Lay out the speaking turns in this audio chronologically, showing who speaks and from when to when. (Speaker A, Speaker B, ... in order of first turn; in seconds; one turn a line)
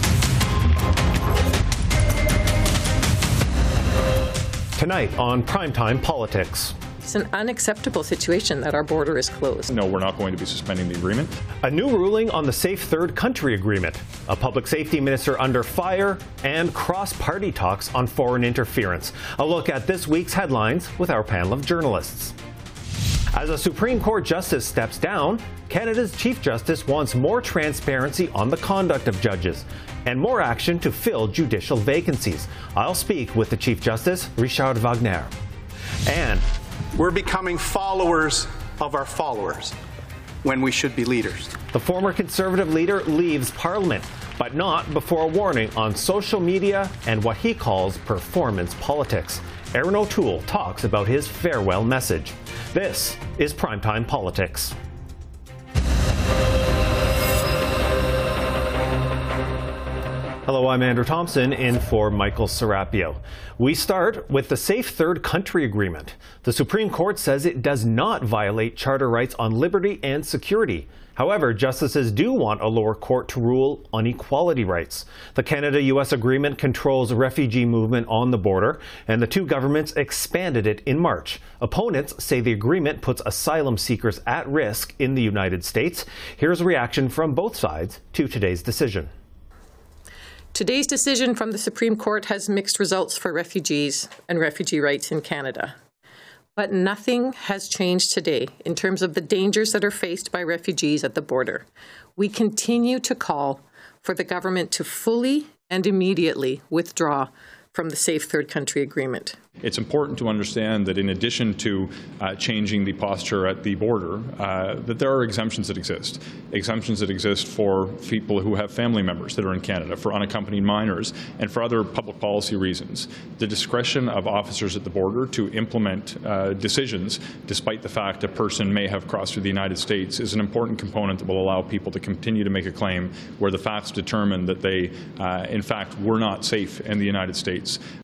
Speaker A: 4.8-6.8
Speaker B: 7.0-9.7
Speaker C: 9.7-11.3
Speaker A: 11.6-22.4
Speaker A: 23.3-35.3
Speaker A: 36.0-36.5
Speaker D: 37.0-39.7
Speaker D: 40.6-41.2
Speaker A: 41.7-54.8
Speaker A: 60.4-89.1
Speaker B: 90.5-95.8
Speaker B: 96.5-109.4
Speaker C: 109.6-137.8